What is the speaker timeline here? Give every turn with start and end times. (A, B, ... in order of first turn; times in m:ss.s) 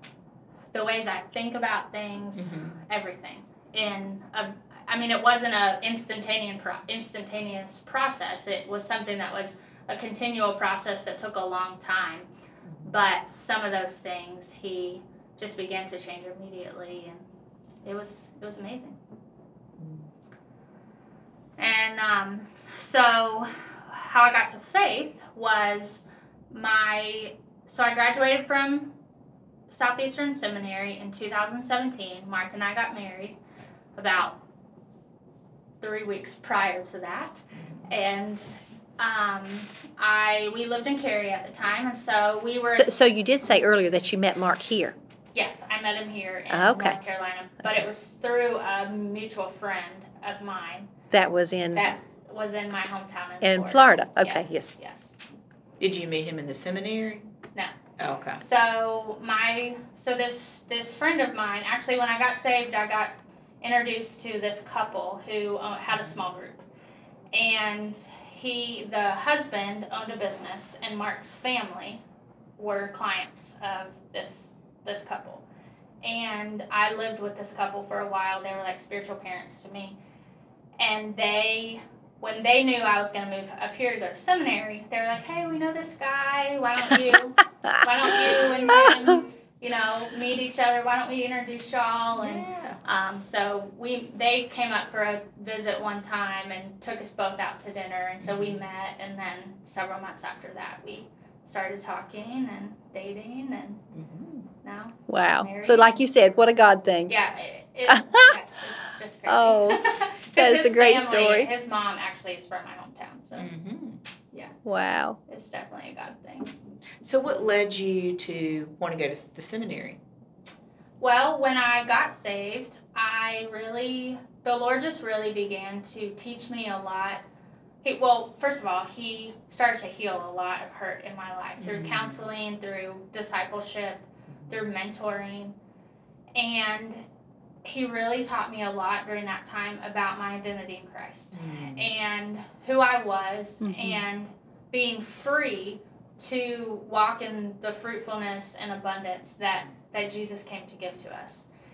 0:00.7-0:12.3 A
0:02.4-0:02.8 B
0:12.8-0:17.2 A
0:17.8-0:19.0 A
0:19.8-0:20.1 B
0:21.6-0:28.9 A
0:29.7-0:33.4 A
0:33.9-0:34.4 A
0:35.8-0:38.4 A
0:39.0-0:42.9 A
0:42.7-0:44.9 C
0:45.3-0:50.9 A
0:46.5-0:47.0 C
0:51.1-0:51.9 C
0:51.7-0:55.2 A
0:53.4-0:54.7 C
0:55.8-0:57.3 B
0:58.0-0:58.4 B
0:58.4-1:06.6 A
1:07.3-1:12.0 A
1:12.6-1:15.4 A
1:16.0-1:20.0 A
1:20.8-1:43.8 A
1:28.7-1:29.2 C
1:32.2-1:32.8 B
1:38.2-1:38.6 B
1:43.9-1:44.5 B
1:44.6-1:46.0 A
1:45.1-1:47.1 C
1:47.1-1:53.5 A
1:47.9-1:48.4 C
1:49.2-1:51.5 C
1:53.3-1:54.0 B
1:54.6-1:55.2 C
1:55.3-1:56.5 A
1:57.0-2:00.0 B
2:01.0-2:07.2 A
2:07.8-2:15.5 A
2:11.6-2:12.2 B
2:16.3-2:17.0 A
2:17.6-2:31.5 A
2:21.3-2:21.8 B
2:23.6-2:24.0 C